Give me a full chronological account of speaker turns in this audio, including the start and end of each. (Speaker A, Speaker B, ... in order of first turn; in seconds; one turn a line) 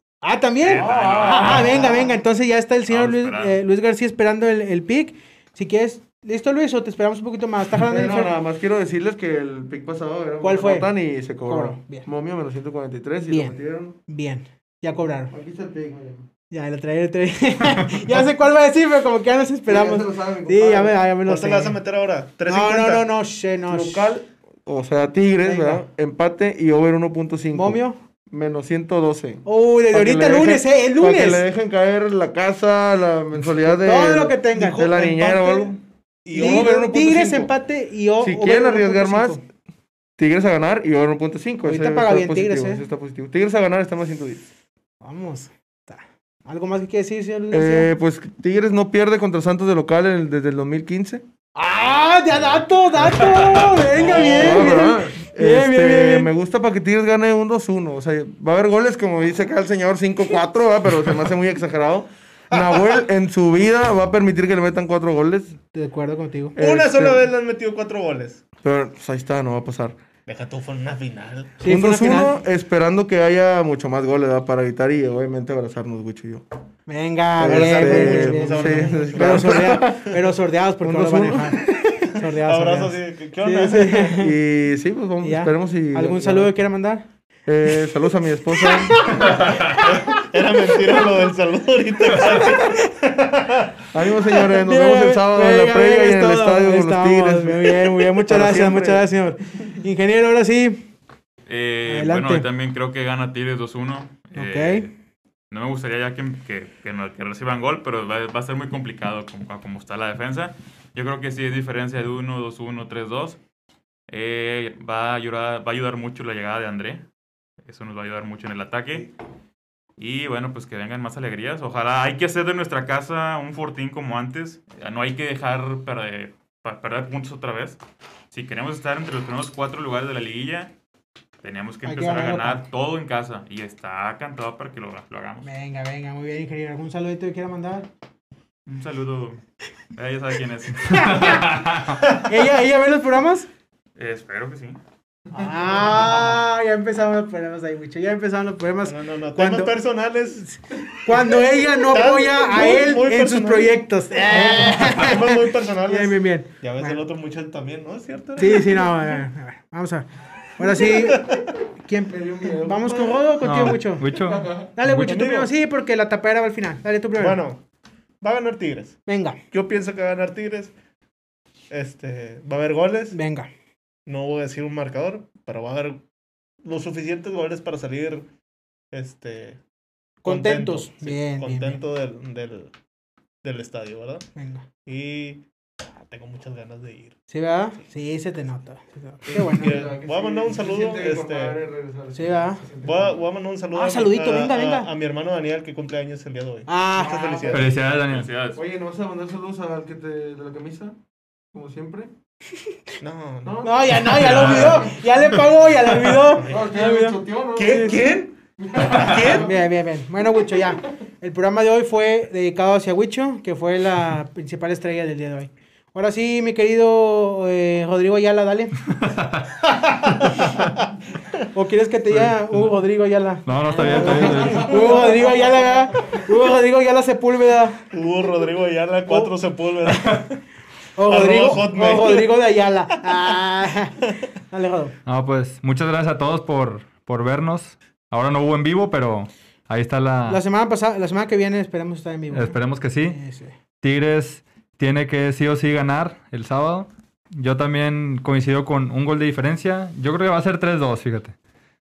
Speaker A: 0.2-8.3
Speaker B: 0.6-1.7
Speaker C: 0.7-2.2
Speaker B: 2.9-3.6
Speaker C: 7.7-14.0
Speaker A: 10.4-12.1
Speaker A: 13.3-15.3
Speaker C: 15.3-16.3
Speaker A: 16.5-21.8
Speaker C: 19.7-21.0
Speaker D: 21.3-23.1
Speaker A: 22.5-24.1
Speaker C: 23.7-35.8
Speaker A: 25.4-25.9
Speaker A: 27.5-28.0
Speaker A: 29.4-31.4
Speaker A: 33.7-34.9
Speaker D: 34.6-36.9
Speaker C: 36.3-37.5
Speaker A: 36.3-39.4
Speaker C: 38.2-39.4
Speaker C: 40.2-44.4
Speaker A: 41.6-42.9
Speaker A: 45.0-47.9
Speaker C: 47.5-51.2
Speaker A: 51.6-56.3
Speaker C: 53.6-65.6
Speaker D: 53.9-54.7
Speaker D: 62.5-63.0
Speaker A: 65.7-66.6
Speaker C: 66.6-67.3
Speaker D: 66.6-68.5
Speaker C: 68.6-70.0
Speaker D: 70.3-71.6
Speaker A: 71.6-72.4
Speaker C: 71.7-76.5
Speaker A: 76.9-84.4
Speaker C: 77.4-80.2
Speaker D: 77.5-79.8
Speaker C: 80.8-81.8
Speaker D: 81.9-84.2
Speaker C: 84.1-86.6
Speaker A: 85.2-87.1
Speaker C: 87.5-89.2
Speaker A: 87.7-88.0
Speaker A: 88.6-89.9
Speaker D: 89.6-93.8
Speaker C: 93.9-99.1
Speaker A: 94.5-100.9
Speaker B: 101.5-104.9
Speaker A: 101.9-102.5
Speaker A: 104.3-104.9
Speaker B: 105.5-113.4
Speaker B: 114.1-117.0
Speaker B: 117.6-119.1
Speaker B: 120.0-127.8
Speaker B: 128.3-130.7
Speaker B: 131.4-135.5
Speaker A: 131.8-132.6
Speaker A: 135.4-137.9
Speaker B: 138.7-139.4
Speaker B: 139.9-141.3
Speaker E: 140.9-142.0
Speaker A: 140.9-141.5
Speaker A: 142.2-143.5
Speaker B: 144.0-144.8
Speaker A: 145.3-149.7
Speaker D: 148.8-150.5
Speaker A: 150.4-157.0
Speaker D: 151.9-159.1
Speaker A: 158.4-161.3
Speaker D: 160.8-161.4
Speaker A: 161.8-164.1
Speaker C: 162.1-164.8
Speaker E: 163.4-165.2
Speaker A: 164.8-167.4
Speaker D: 164.9-165.5
Speaker D: 167.2-167.6
Speaker D: 168.2-170.7
Speaker A: 169.1-169.4
Speaker D: 171.7-173.2
Speaker A: 173.1-173.5
Speaker D: 174.1-176.0
Speaker D: 176.6-178.3
Speaker D: 178.9-179.6
Speaker A: 180.2-181.8
Speaker D: 180.2-182.7
Speaker D: 183.4-184.3
Speaker A: 184.4-184.6
Speaker D: 184.8-185.4
Speaker D: 186.1-187.2
Speaker A: 187.3-189.8
Speaker C: 189.3-193.2
Speaker D: 189.4-191.6
Speaker A: 192.2-192.6
Speaker D: 192.8-197.7
Speaker A: 193.7-194.9
Speaker A: 196.7-197.6
Speaker E: 197.5-198.3
Speaker B: 198.0-198.6
Speaker C: 198.6-201.0
Speaker C: 201.5-202.1
Speaker D: 203.0-204.9
Speaker C: 203.4-205.0
Speaker A: 203.6-207.9
Speaker E: 204.1-204.7
Speaker C: 206.4-209.6
Speaker D: 207.6-209.5
Speaker A: 209.4-218.8
Speaker E: 218.9-219.6
Speaker A: 221.5-227.9
Speaker E: 222.1-222.8
Speaker E: 223.5-224.9
Speaker D: 224.3-224.9
Speaker C: 224.4-225.0
Speaker D: 227.9-230.4
Speaker E: 229.9-230.2
Speaker A: 231.0-234.0
Speaker D: 231.1-232.4
Speaker A: 234.5-235.0
Speaker E: 235.1-240.4
Speaker A: 240.2-243.5
Speaker E: 242.3-243.2
Speaker E: 243.8-251.4